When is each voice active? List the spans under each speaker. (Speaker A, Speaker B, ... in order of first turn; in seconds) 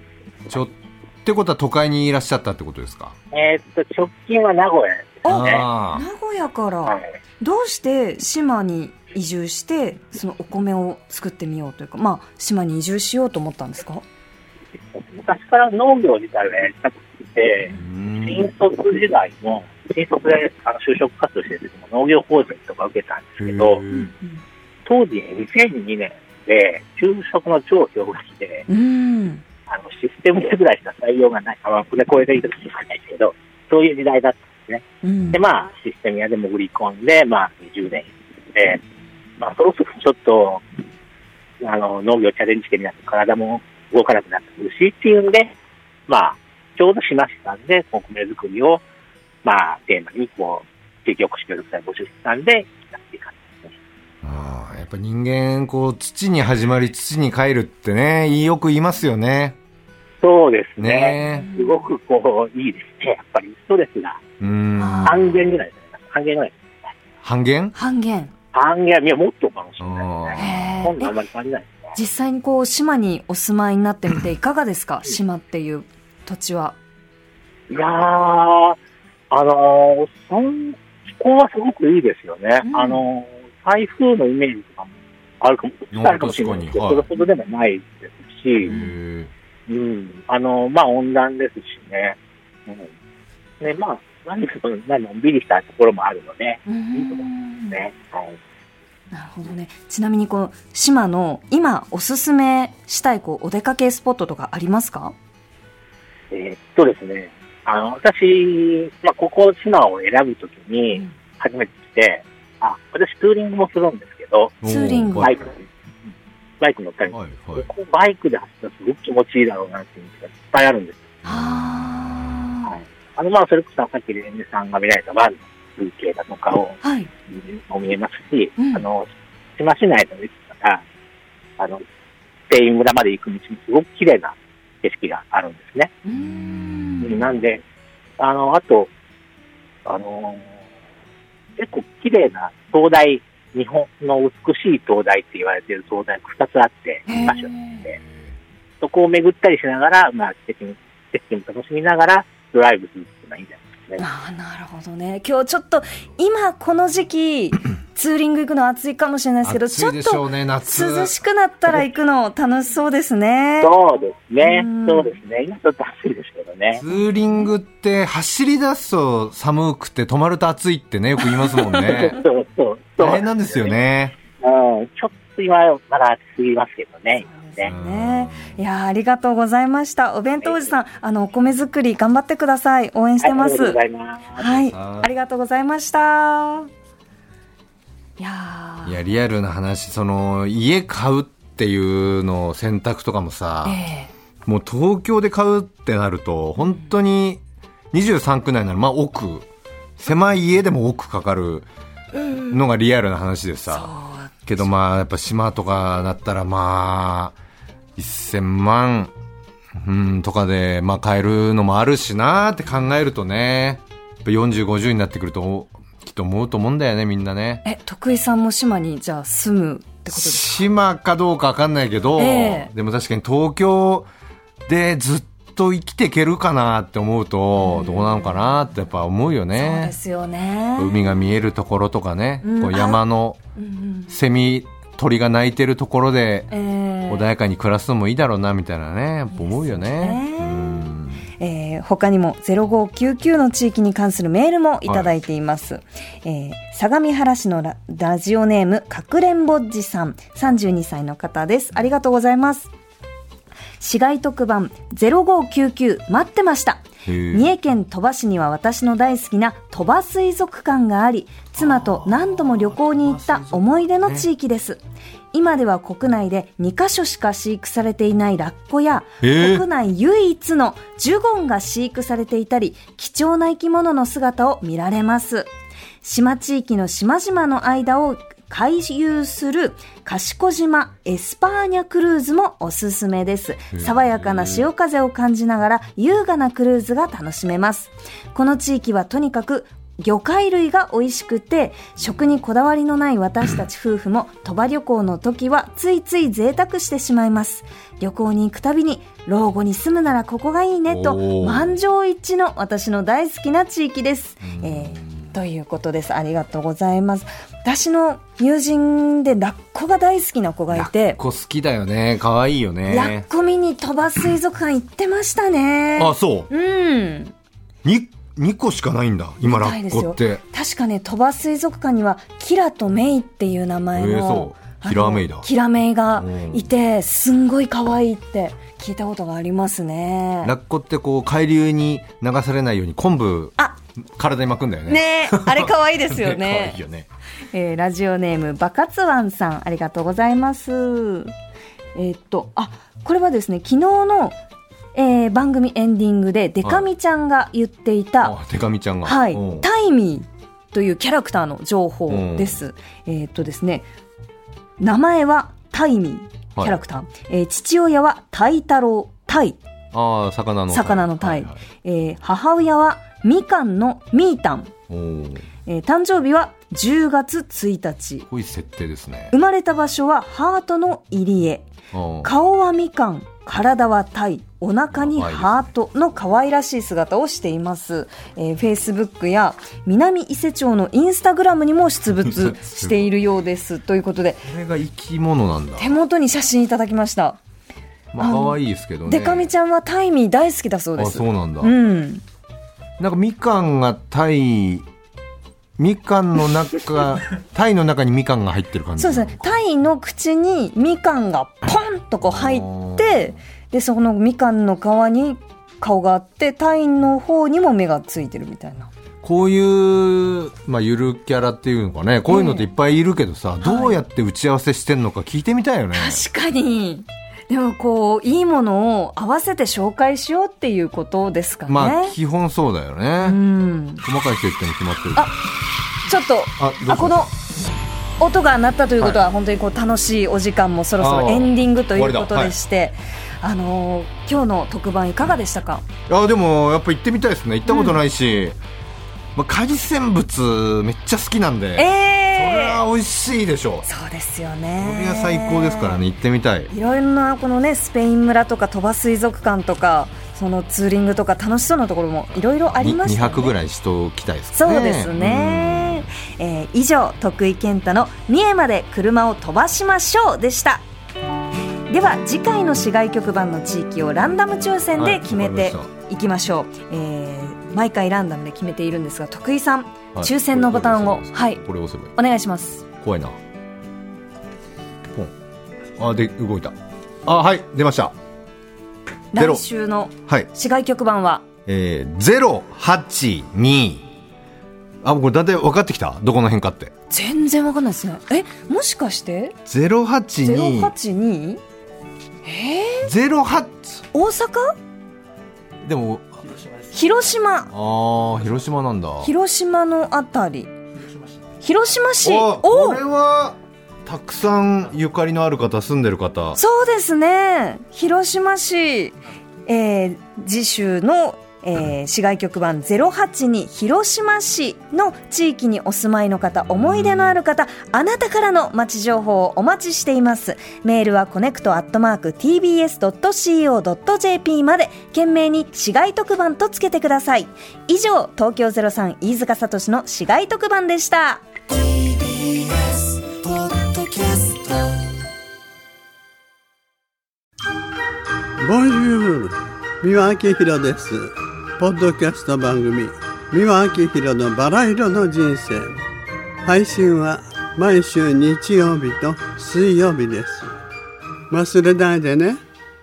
Speaker A: 0.5-3.2, 5.3-6.0, 17.7-18.5, 23.4-24.1, 54.2-59.6, 60.8-61.5, 64.4-65.4, 67.2-67.7, 69.8-70.8, 85.9-87.0, 88.6-89.3, 114.6-115.4, 117.1-117.7, 121.2-122.0, 136.2-137.1, 148.0-148.3, 159.4-161.1, 166.8-172.2, 173.0-174.2, 177.7-178.6, 184.7-185.1, 188.8-193.8, 194.4-199.4, 200.0-201.7, 202.4-203.9, 204.5-207.3, 207.9-209.1, 209.7-217.6, 220.1-224.1, 224.7-229.9, 230.8-233.4, 234.1-236.5, 237.1-241.2, 257.0-257.5, 261.6-264.3, 269.2-269.6, 283.7-284.7, 300.9-301.7, 304.4-305.3, 310.7-313.3, 316.0-316.5, 317.8-320.4, 323.9-325.5, 326.1-326.7, 330.4-337.1, 348.2-349.7, 352.1-352.6, 356.5-356.8, 359.9-361.6, 364.9-365.4, 368.3-369.3, 371.9-372.3, 374.9-375.6, 382.2-383.1, 384.4-386.0, 388.1-389.5, 390.9-391.7, 393.0-394.9, 395.8-399.6, 402.2-403.3, 409.2-416.2, 421.7-423.4, 424.0-425.3, 426.6-427.3, 431.0-432.6, 436.1-438.6, 439.4-443.9, 444.8-446.7, 452.7-456.1, 465.0-465.9, 470.1-472.1, 473.0-473.4, 475.9-478.1, 479.3-479.6, 481.6-484.1, 485.0-486.9, 489.7-490.9, 493.0-494.0, 495.8-496.4, 497.7-499.3, 502.2-506.6, 516.9-517.2
Speaker B: 3.3-5.7, 14.9-23.8, 24.9-28.6, 29.7-38.8, 39.4-40.6, 41.6-45.5, 46.1-48.8, 49.4-53.7, 60.2-64.2, 65.0-66.9, 68.5-72.0, 77.7-78.8, 79.3-88.7, 89.7-92.9, 93.6-98.4, 106.3-114.6, 115.1-115.7, 116.6-121.2, 122.6-129.1, 129.6-130.8, 131.6-131.8, 132.5-135.9, 137.0-137.6, 138.2-138.9, 139.8-140.6, 141.6-148.0, 148.8-154.0, 163.6-166.8, 171.6-173.8, 174.4-177.7, 180.4-180.8, 183.2-184.6
Speaker C: 5.2-14.0, 23.9-24.4, 28.7-29.4, 35.0-35.4, 61.4-61.9, 64.8-65.2, 67.7-68.3, 70.3-71.1, 71.9-76.8, 82.6-83.0, 96.7-97.8, 99.1-105.1, 114.6-115.3, 121.2-122.8, 126.8-127.1, 128.6-128.8, 136.0-137.2, 147.1-147.8, 154.0-163.7, 164.4-165.2, 177.2-183.8, 184.3-186.7, 188.2-189.0, 193.6-194.1, 202.2-202.5, 203.7-204.7, 217.6-220.6, 222.2-222.7, 227.6-228.5, 229.5-231.2, 232.4-233.0, 233.6-234.1, 236.5-237.3, 239.3-240.9, 241.4-252.7, 253.8-264.8, 265.3-275.5, 276.0-311.2, 312.9-317.3, 319.4-330.5, 334.9-336.8, 337.5-341.3, 341.9-344.4, 344.9-348.4, 349.0-353.9, 354.8-359.6, 360.7-364.7, 365.6-368.3, 369.3-371.7, 372.2-384.5, 385.8-387.4, 388.2-392.2, 399.0-408.9, 412.3-412.7, 413.6-414.0, 415.9-422.1, 423.2-424.0, 426.1-427.3, 428.2-435.9, 437.6-438.0, 441.8-442.8, 443.9-446.0, 446.7-453.6, 454.5-460.8, 461.9-471.6, 472.1-472.8, 479.3-481.4, 487.1-489.6, 490.4-491.6, 492.4-493.1, 494.1-494.8, 496.9-497.7, 499.2-500.7, 501.6-503.0, 506.6-509.1, 509.7-531.5
Speaker D: 531.7-534.8
Speaker E: 538.6-546.0, 546.6-550.7, 551.5-552.6